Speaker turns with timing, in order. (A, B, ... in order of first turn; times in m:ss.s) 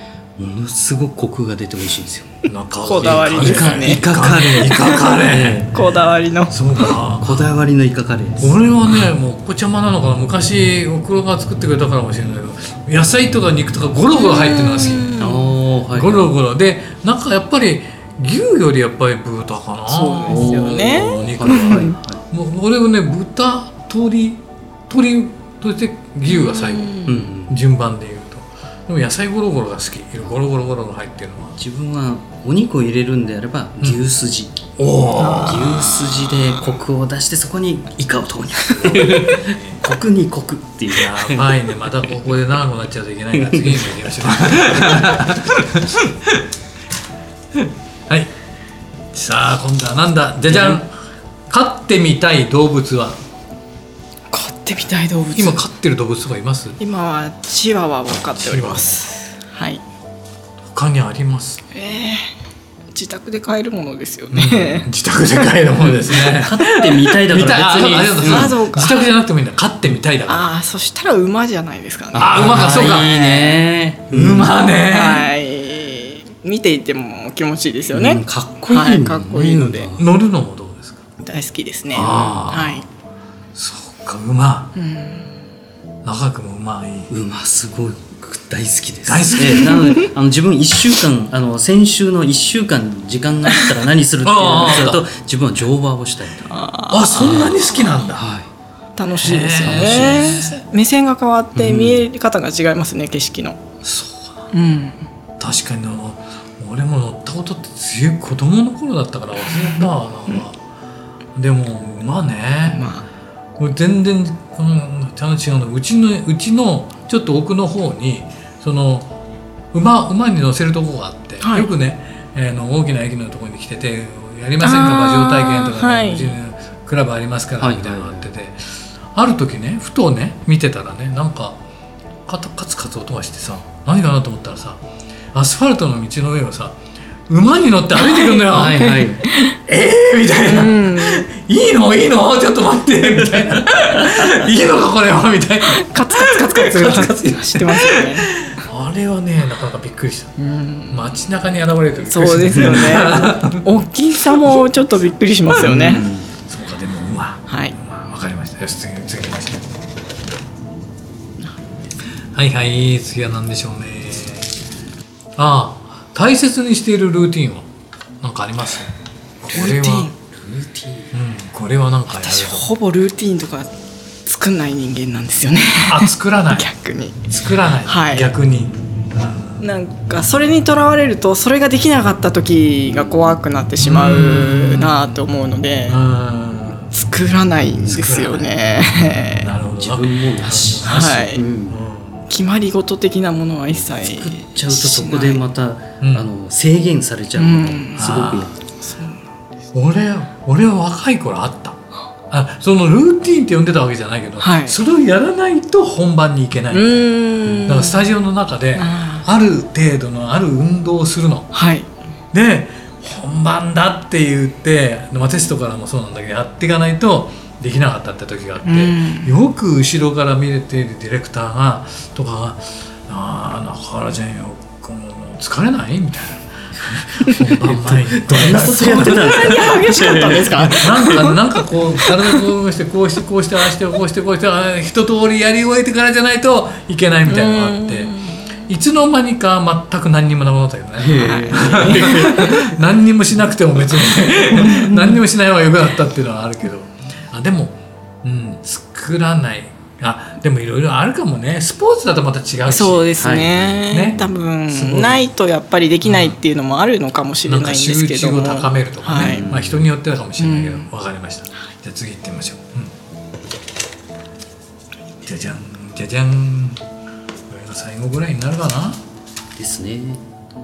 0:00.4-0:02.4 A
0:02.5-0:05.8 B
0:02.9-0:06.9 C
0:03.0-0:05.7 A
0:06.5-0:07.5 B
0:07.2-0:08.6 A
0:08.4-0:15.2 B
0:14.1-0:15.5 C
0:15.2-0:16.3 A
0:15.9-0:31.6 B
0:19.9-0:22.0 C
0:20.3-0:22.2 A
0:26.3-0:27.2 C
0:27.1-0:27.6 A
0:31.6-0:34.8 A
0:34.8-0:36.4 B
0:35.2-0:35.5 C
0:35.4-0:42.1 A
0:38.8-0:39.8 B
0:40.9-0:46.5 B
0:43.3-0:44.0 A
0:44.5-0:45.2 A
0:47.5-0:48.3 B
0:49.1-0:50.9 B
0:50.5-0:50.8 A
0:51.5-0:53.2 B
0:54.3-0:55.6 C
0:55.4-0:56.8 B
0:56.8-0:59.8 C
0:58.4-0:59.0 B
1:00.6-1:01.6 B
1:01.7-1:02.3 C
1:02.9-1:05.5 C
1:04.3-1:10.5 B
1:06.0-1:08.5 A
1:07.8-1:09.1 C
1:10.3-1:13.6 C
1:12.1-1:14.6 A
1:12.2-1:13.3 B
1:14.1-1:15.3 B
1:14.9-1:19.9 C
1:17.9-1:20.1 A
1:20.0-1:21.0 B
1:21.2-1:22.8 C
1:21.9-1:22.8 B
1:22.0-1:22.4 A
1:23.6-1:24.8 B
1:24.8-1:25.3 C
1:26.0-1:27.1 B
1:27.1-1:36.6 A
1:29.1-1:29.9 B
1:29.5-1:30.1 C
1:34.2-1:35.0 B
1:36.5-1:37.8 C
1:36.9-1:38.3 B
1:37.2-1:37.6 A
1:38.2-1:38.5 A
1:39.0-1:43.6 C
1:39.2-1:40.6 B
1:39.6-1:40.4 A
1:41.6-1:42.0 A
1:43.8-1:44.5 B
1:44.5-1:45.1 C
1:45.4-1:50.6 B
1:49.6-1:50.4 C
1:51.4-1:52.8 B
1:52.7-1:53.1 C
1:53.6-1:59.1 B
1:59.7-2:11.6 B
2:01.4-2:01.7 C
2:04.6-2:06.4 C
2:07.6-2:08.3 A
2:12.3-2:14.8 B
2:15.3-2:16.8 B
2:17.3-2:19.1 B
2:18.0-2:19.6 C
2:18.5-2:19.2 A
2:19.7-2:30.4 B
2:20.4-2:21.3 C
2:25.7-2:28.3 C
2:30.4-2:31.2 C
2:30.9-2:34.7 B
2:32.0-2:36.0 C
2:35.5-2:36.3 A
2:36.5-2:39.7 B
2:37.5-2:37.8 C
2:42.3-2:44.5 B
2:45.4-2:47.7 B
2:48.2-2:50.1 B
2:49.5-2:50.1 C
2:50.3-2:51.1 A
2:51.1-2:52.7 B
2:52.1-2:53.7 C
2:54.3-2:57.3 C
2:55.8-2:56.7 B
2:57.3-2:59.6 B
2:57.8-2:58.3 C
2:59.6-3:06.0 C
3:02.9-3:03.3 A
3:03.8-3:05.2 B
3:05.9-3:06.9 B
3:06.9-3:09.5 C
3:07.9-3:08.5 B
3:09.4-3:12.3 B
3:09.8-3:11.8 A
3:10.7-3:11.4 C
3:12.3-3:15.4 C
3:13.7-3:18.7 A
3:16.0-3:16.3 B
3:17.4-3:18.1 C
3:18.0-3:18.5 B
3:18.8-3:19.2 C
3:19.7-3:31.5 B
3:24.4-3:24.8 C
3:26.7-3:28.0 C
3:28.8-3:29.3 C
3:31.5-3:31.9 C
3:32.3-3:49.9 B
3:38.6-3:39.3 C
3:47.3-3:50.8 A
3:48.5-3:51.4 C
3:50.5-3:58.1 B
3:52.0-3:52.4 C
3:57.3-3:58.5 C
3:58.7-4:13.2 B
4:01.0-4:02.7 A
4:01.2-4:02.7 C
4:04.4-4:05.2 C
4:12.7-4:19.5 C
4:13.2-4:14.3 A
4:13.9-4:15.1 B
4:16.0-4:16.4 B
4:17.5-4:22.9 B
4:19.1-4:19.9 A
4:20.4-4:20.9 C
4:25.2-4:26.8 B
4:27.5-4:29.0 B
4:29.6-4:30.2 A